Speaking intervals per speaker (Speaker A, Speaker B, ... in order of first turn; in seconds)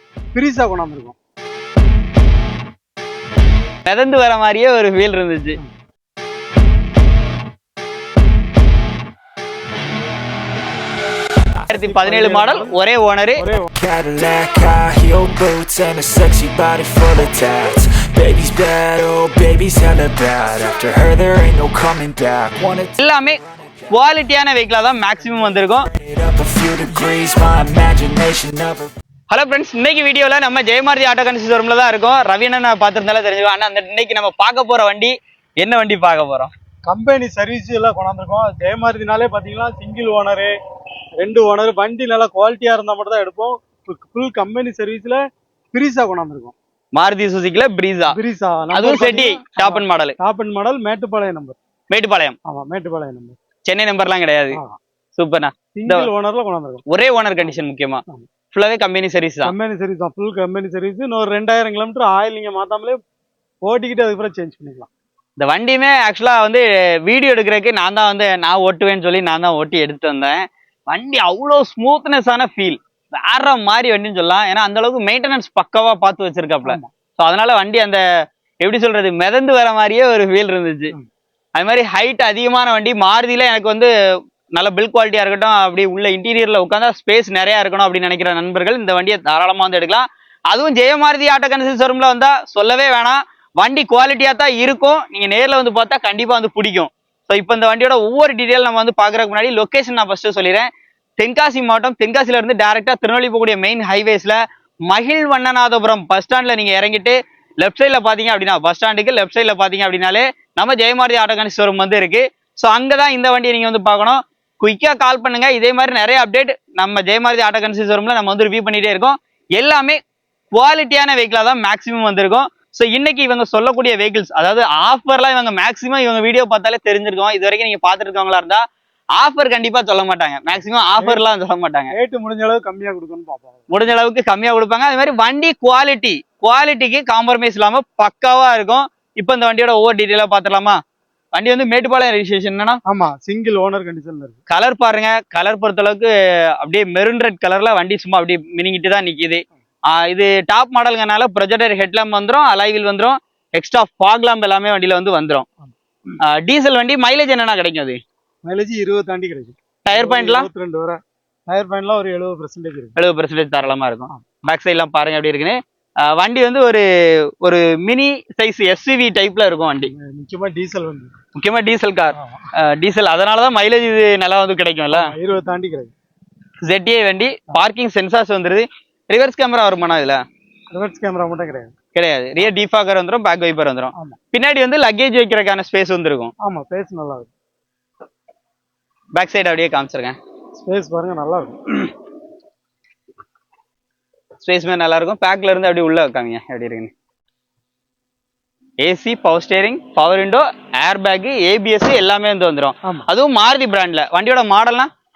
Speaker A: 0.3-1.1, 11.8-12.8, 13.3-13.7, 36.9-40.5, 41.2-45.2, 45.7-46.5, 48.1-51.6, 52.5-53.4, 54.5-54.8, 55.8-56.8, 57.4-58.2, 59.4-63.0, 63.6-64.9, 131.9-133.7, 142.9-144.4, 158.4-163.0, 169.8-171.1, 172.1-172.4, 174.9-175.9, 180.7-181.7, 186.4-187.3, 190.6-191.9
Speaker B: 3.8-5.6, 11.6-13.5, 22.9-23.4, 23.9-25.9, 29.3-36.5, 46.9-48.2, 48.7-50.2, 51.9-52.4, 53.6-54.6, 55.1-56.1, 56.9-59.5, 65.4-78.0, 78.6-81.0, 81.6-83.9, 84.5-120.0, 120.5-128.6, 129.2-131.9, 133.7-140.8, 141.3-142.8, 144.5-155.5, 156.2-158.0, 159.8-160.5, 163.0-169.9, 171.3-175.1, 176.6-180.2, 181.9-186.3, 189.1-190.2, 194.4-196.9, 198.8-204.9
Speaker C: 13.7-22.9, 25.9-28.9